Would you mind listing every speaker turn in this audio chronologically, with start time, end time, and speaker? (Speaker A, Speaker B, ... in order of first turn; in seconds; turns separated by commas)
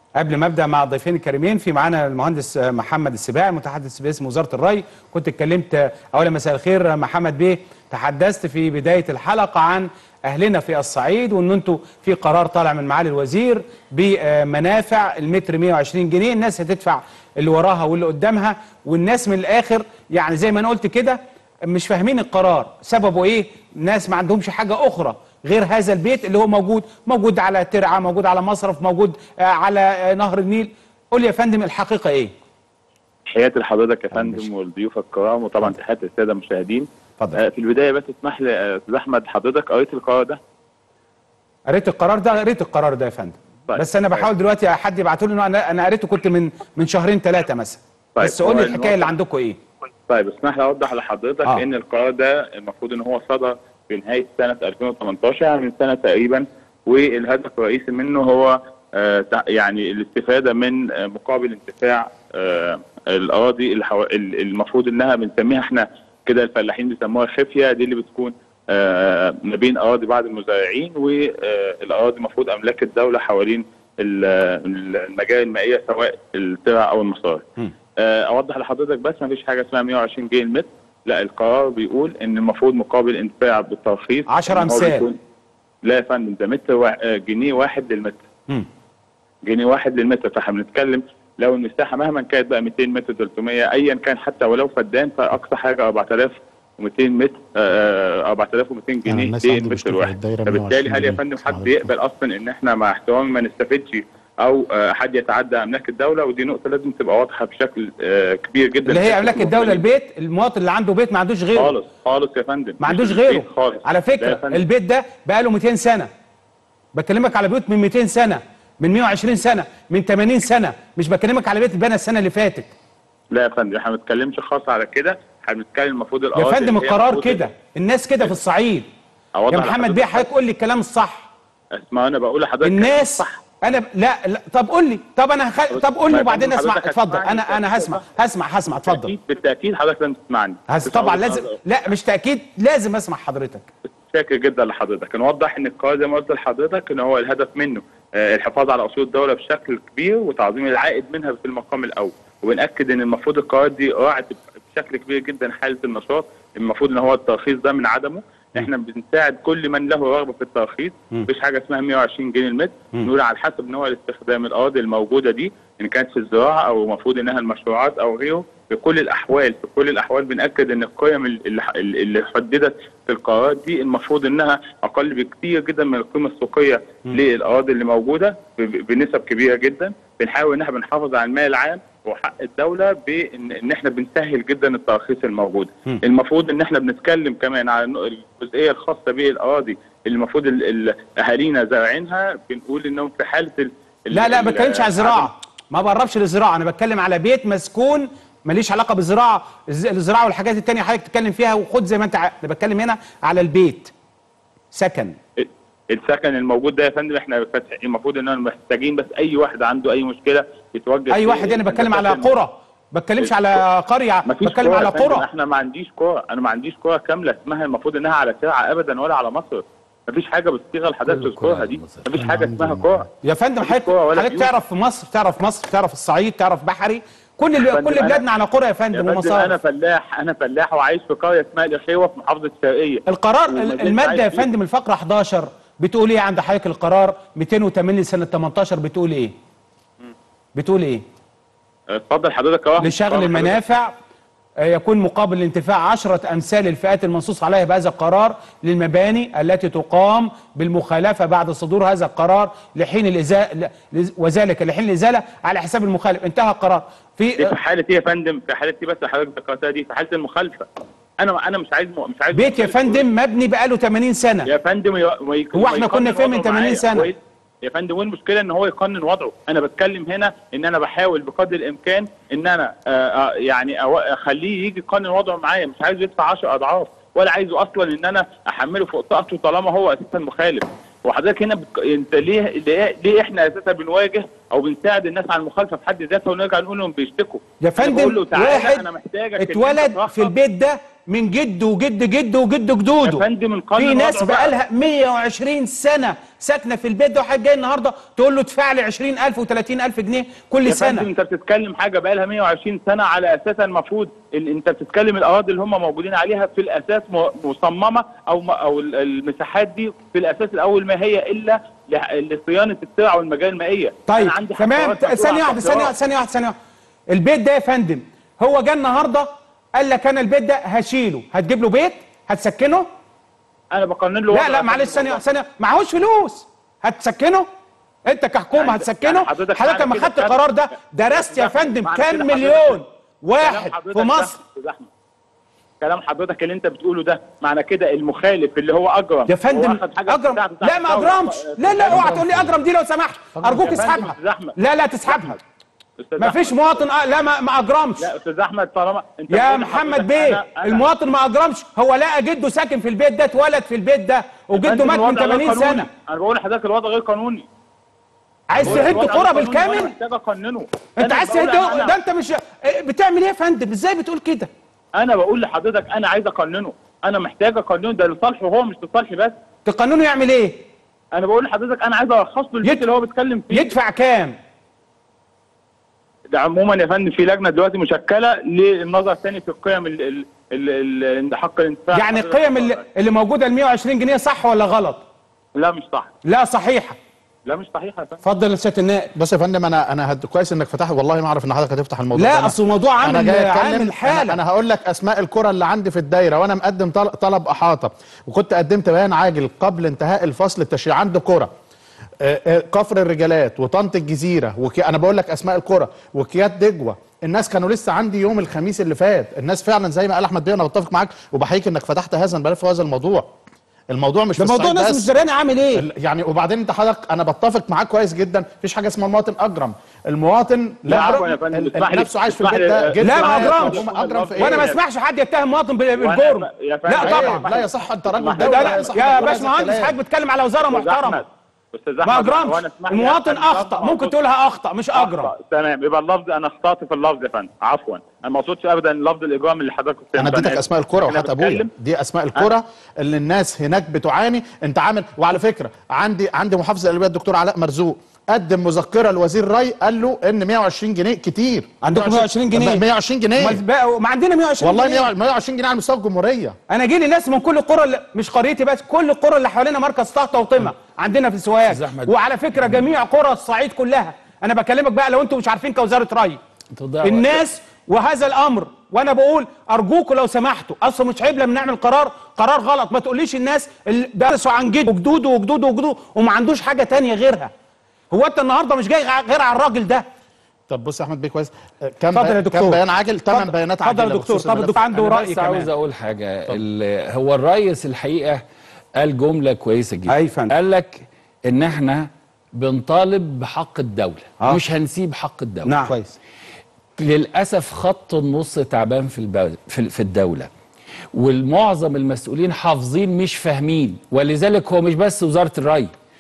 Speaker A: 0.2-32.3, Speaker B: 33.3-40.4, Speaker A: 41.7-49.6, Speaker B: 43.7-44.3, Speaker B: 48.2-49.1, Speaker B: 50.1-77.4, Speaker B: 78.0-85.1, Speaker A: 84.3-85.0, Speaker B: 85.8-88.2, Speaker B: 89.5-109.8, Speaker C: 99.1-101.9, Speaker A: 108.9-111.7, Speaker B: 111.6-114.6, Speaker A: 112.8-116.1, Speaker A: 117.0-122.7, Speaker B: 123.3-127.5, Speaker A: 126.3-128.8, Speaker B: 129.3-130.3, Speaker A: 129.5-131.3, Speaker B: 131.8-133.4, Speaker A: 132.6-139.1, Speaker B: 135.7-138.0, Speaker B: 138.8-141.5, Speaker A: 140.7-143.7, Speaker B: 143.9-195.3, Speaker A: 194.1-203.9, Speaker A: 204.7-205.2, Speaker B: 205.4-212.4, Speaker A: 211.1-215.2, Speaker B: 213.2-213.6, Speaker B: 214.2-223.1, Speaker D: 221.0-222.1, Speaker C: 222.1-223.1, Speaker A: 223.2-229.5, Speaker B: 223.6-224.5, Speaker B: 227.6-228.2, Speaker B: 228.9-234.5, Speaker A: 233.1-239.3, Speaker A: 240.5-241.0, Speaker B: 241.9-243.6, Speaker A: 242.8-243.9, Speaker A: 244.6-257.5, Speaker B: 257.4-260.6, Speaker B: 261.2-263.1, Speaker A: 262.3-264.5, Speaker B: 264.5-290.3, Speaker A: 265.5-267.1, Speaker A: 287.6-288.8, Speaker A: 289.4-293.2, Speaker B: 293.0-294.6, Speaker A: 293.8-301.1, Speaker B: 300.6-315.9, Speaker A: 314.1-316.5, Speaker A: 317.1-322.9, Speaker B: 323.7-325.2, Speaker A: 324.3-327.4, Speaker A: 328.1-334.4, Speaker B: 328.6-330.4, Speaker B: 331.0-332.8, Speaker B: 333.4-334.9, Speaker B: 335.8-342.1, Speaker A: 339.3-345.4, Speaker C: 341.8-342.6, Speaker C: 343.3-343.9, Speaker B: 343.6-345.4, Speaker B: 346.0-346.8, Speaker A: 346.2-348.1, Speaker B: 348.0-350.9, Speaker A: 349.3-355.9, Speaker B: 354.5-357.5, Speaker A: 358.5-359.9, Speaker C: 358.6-358.9, Speaker B: 358.6-361.9, Speaker A: 361.0-364.5, Speaker B: 364.9-369.3, Speaker A: 369.6-370.6, Speaker B: 371.1-373.7, Speaker A: 373.5-374.3, Speaker B: 376.3-382.8, Speaker A: 381.9-385.0, Speaker B: 385.6-386.1, Speaker A: 386.2-387.0, Speaker B: 387.4-388.2, Speaker A: 388.2-389.1, Speaker C: 389.1-401.5, Speaker A: 392.1-394.4, Speaker C: 402.2-413.3, Speaker C: 413.9-415.1, Speaker A: 414.4-415.9, Speaker C: 415.7-424.7, Speaker B: 420.9-424.8, Speaker A: 420.9-421.2, Speaker A: 423.0-423.8, Speaker A: 424.4-427.5, Speaker B: 426.0-429.2, Speaker C: 427.0-429.9, Speaker A: 428.4-431.2, Speaker B: 430.7-434.1, Speaker A: 432.0-435.3, Speaker B: 434.9-441.7, Speaker C: 440.1-453.6, Speaker A: 451.8-452.8, Speaker A: 453.4-455.1, Speaker C: 454.6-456.6, Speaker A: 456.7-466.4, Speaker D: 461.7-462.1, Speaker D: 466.7-467.4, Speaker A: 467.0-477.5, Speaker A: 478.1-480.0, Speaker C: 480.7-484.8, Speaker A: 482.1-485.7, Speaker D: 484.9-488.4, Speaker D: 488.9-495.9, Speaker A: 490.1-490.5, Speaker A: 495.6-496.0, Speaker D: 497.0-500.5, Speaker D: 501.1-505.9